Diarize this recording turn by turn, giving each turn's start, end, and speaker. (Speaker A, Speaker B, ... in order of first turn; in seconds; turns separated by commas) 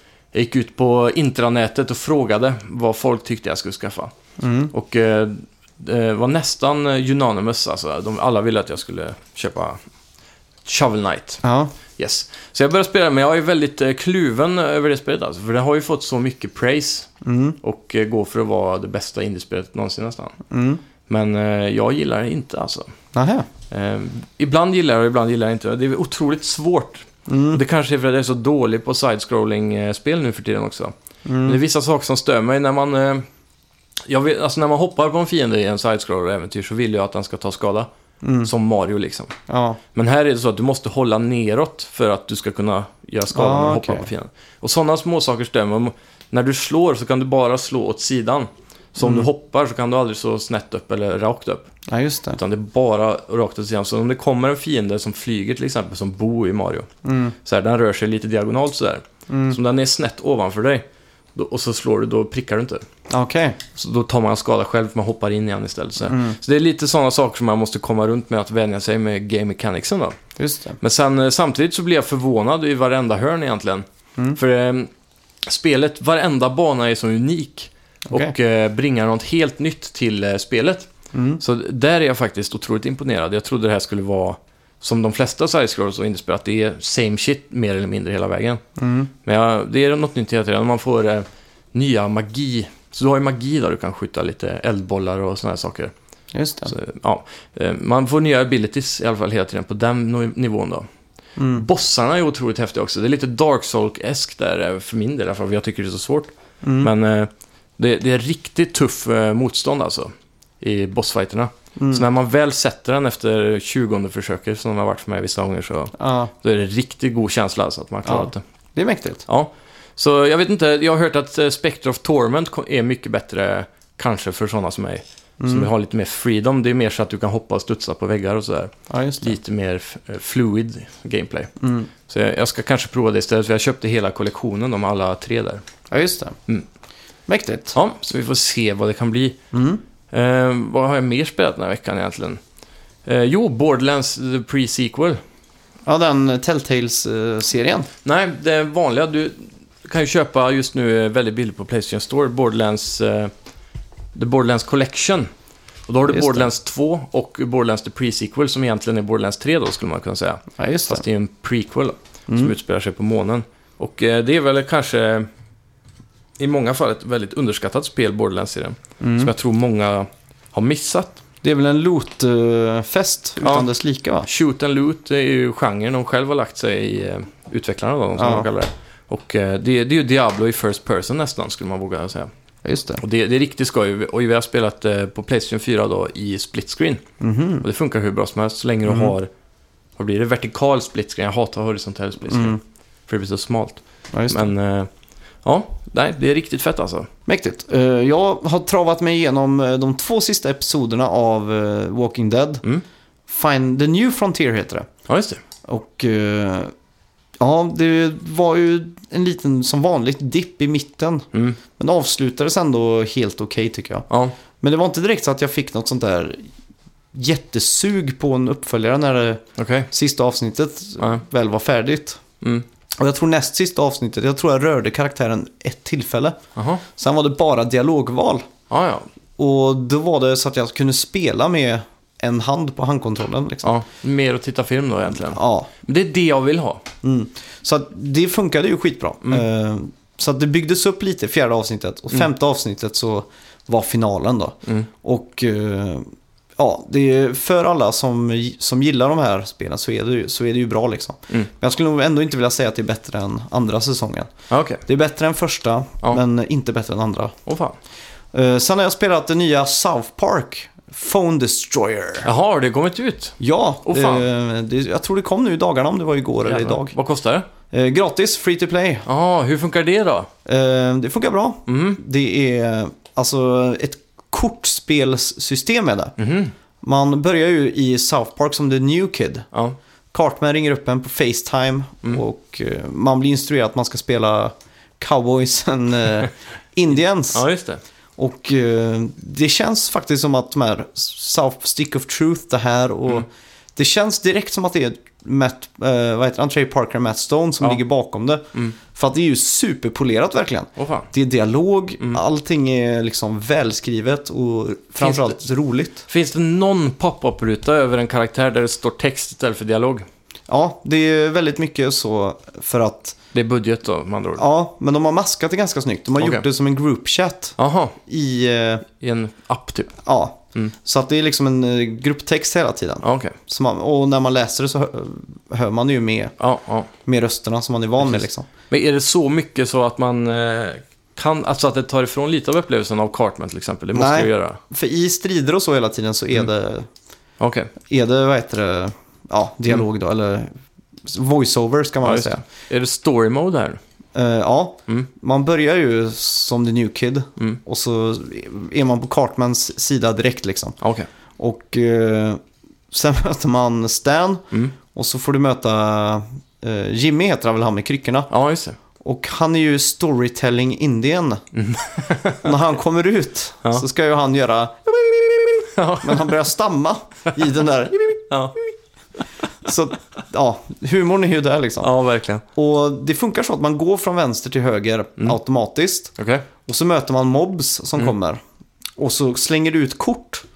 Speaker A: 0.3-4.1, Speaker B: 4.4-4.7, Speaker A: 4.7-9.8, Speaker A: 10.6-11.4, Speaker B: 11.4-11.7, Speaker A: 11.9-17.1, Speaker B: 17.2-17.6, Speaker A: 17.6-20.4, Speaker B: 20.5-20.8, Speaker A: 21.1-22.9, Speaker B: 23.1-23.5, Speaker A: 23.7-33.2, Speaker B: 27.3-27.6, Speaker B: 31.2-31.6, Speaker A: 34.0-37.9, Speaker B: 38.2-38.5, Speaker A: 38.4-39.3, Speaker B: 39.5-39.8, Speaker A: 39.9-51.7, Speaker B: 43.3-44.1, Speaker B: 49.0-49.3, Speaker B: 51.9-52.4, Speaker A: 52.4-56.9, Speaker B: 57.0-57.3, Speaker A: 57.4-60.8, Speaker B: 59.3-59.6, Speaker A: 61.3-62.8, Speaker B: 63.1-63.6, Speaker A: 63.8-70.2, Speaker B: 66.0-66.4, Speaker B: 70.4-70.8, Speaker A: 70.8-74.9, Speaker A: 75.4-80.9, Speaker B: 78.1-78.3, Speaker B: 81.1-81.4, Speaker A: 81.4-88.6, Speaker B: 88.8-89.1, Speaker A: 89.2-95.9, Speaker B: 96.3-96.7, Speaker A: 96.7-100.8, Speaker B: 101.4-101.7, Speaker A: 101.5-118.4, Speaker B: 106.6-106.9, Speaker B: 111.8-112.0, Speaker B: 116.0-116.3, Speaker B: 118.0-119.2, Speaker A: 119.3-131.5, Speaker B: 125.4-125.7, Speaker B: 128.9-129.4, Speaker B: 131.6-131.9, Speaker A: 132.1-135.6, Speaker B: 135.9-136.3, Speaker B: 137.3-137.8, Speaker A: 137.7-139.4, Speaker B: 139.5-139.8, Speaker A: 140.1-142.4, Speaker A: 143.0-145.2, Speaker B: 145.8-147.9, Speaker A: 148.0-153.3, Speaker A: 154.1-155.3, Speaker A: 155.9-165.3, Speaker B: 156.1-156.5, Speaker B: 160.6-161.0, Speaker B: 162.3-162.5, Speaker A: 166.4-171.2, Speaker B: 169.0-169.3, Speaker B: 171.4-174.3, Speaker A: 173.4-173.7, Speaker A: 174.2-182.3, Speaker B: 178.2-178.5, Speaker B: 182.6-183.0, Speaker A: 183.0-187.0, Speaker B: 187.2-187.6, Speaker A: 187.6-189.3, Speaker B: 188.8-189.1, Speaker A: 190.0-192.6, Speaker B: 192.3-192.6, Speaker A: 193.1-194.9, Speaker B: 194.1-194.5, Speaker A: 195.4-197.1, Speaker B: 197.3-202.6, Speaker B: 203.3-204.9, Speaker A: 205.1-205.4, Speaker B: 205.7-206.7, Speaker B: 207.4-214.1, Speaker A: 211.3-211.6, Speaker B: 214.6-216.5, Speaker B: 217.1-222.2, Speaker A: 219.6-219.9, Speaker B: 223.0-226.4, Speaker A: 226.6-226.8, Speaker B: 226.9-228.5, Speaker A: 228.7-229.1, Speaker B: 229.4-233.7, Speaker A: 233.6-236.8, Speaker B: 235.2-235.7, Speaker B: 237.0-254.3, Speaker A: 254.5-254.8, Speaker B: 254.8-257.4, Speaker A: 257.4-257.8, Speaker B: 258.3-262.3, Speaker A: 262.2-264.2, Speaker B: 263.4-266.9, Speaker A: 266.4-267.5, Speaker B: 267.7-269.1, Speaker A: 269.1-270.3, Speaker B: 270.4-276.1, Speaker A: 271.7-272.0, Speaker A: 276.2-276.5, Speaker B: 276.8-279.5, Speaker B: 280.1-287.4, Speaker A: 287.3-287.8, Speaker B: 288.2-306.0, Speaker A: 300.8-301.1, Speaker A: 305.0-305.4, Speaker A: 306.1-310.1, Speaker B: 310.5-313.1, Speaker A: 313.3-314.4, Speaker B: 314.4-318.9, Speaker A: 316.2-316.4, Speaker A: 317.6-317.9, Speaker A: 319.0-320.0, Speaker B: 320.0-326.3, Speaker A: 323.0-323.3, Speaker A: 326.4-326.9, Speaker B: 327.1-328.5, Speaker A: 328.0-334.6, Speaker B: 333.9-336.9, Speaker A: 337.4-337.7, Speaker B: 337.9-340.5, Speaker B: 341.1-342.4, Speaker A: 342.0-343.8, Speaker B: 344.1-350.8, Speaker A: 350.8-351.1, Speaker B: 351.4-352.4, Speaker B: 352.9-358.3, Speaker A: 358.3-358.8, Speaker B: 359.0-361.4, Speaker A: 361.5-362.5, Speaker B: 362.4-368.3, Speaker A: 365.7-366.4, Speaker A: 368.3-368.5, Speaker B: 369.6-371.9, Speaker A: 371.8-372.4, Speaker B: 372.5-378.4, Speaker A: 376.2-376.4, Speaker B: 379.0-380.4